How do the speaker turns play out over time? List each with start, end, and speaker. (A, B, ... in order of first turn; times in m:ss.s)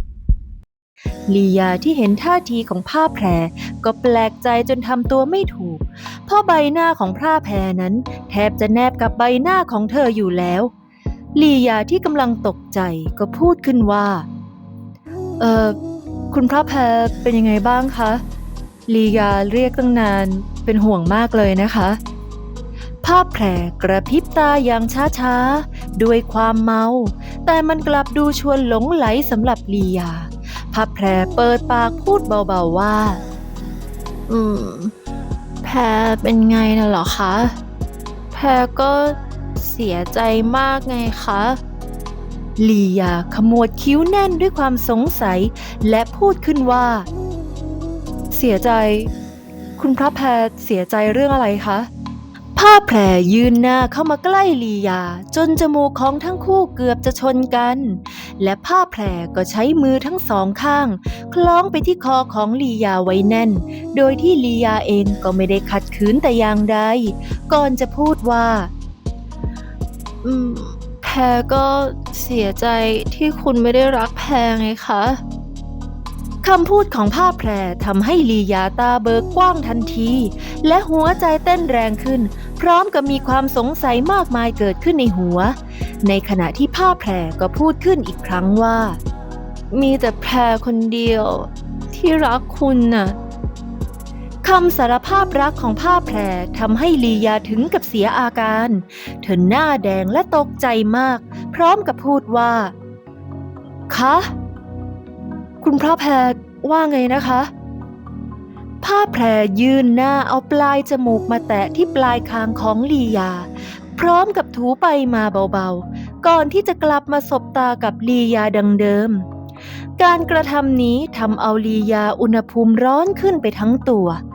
0:01.3-0:10.7 A
0:11.3-0:14.3 A
0:15.4-0:15.8 A
0:16.3-0:18.2 A
0:18.9-0:22.0 A
0:23.0-0:33.2 A
0:34.3-0:34.9 A
0:35.6-0:37.6 A
0:38.3-0:41.6 A
0:42.6-0:47.1 A
0:48.3-0:49.1 A
0:49.8-0:51.9 A
0:52.6-1:08.7 A
1:10.2-1:15.2 A
1:16.4-1:29.0 A
1:29.7-1:33.2 A
1:34.4-1:42.7 A
1:43.9-1:44.3 A
1:45.6-1:47.5 A
1:48.8-1:59.2 A
2:00.0-2:04.2 A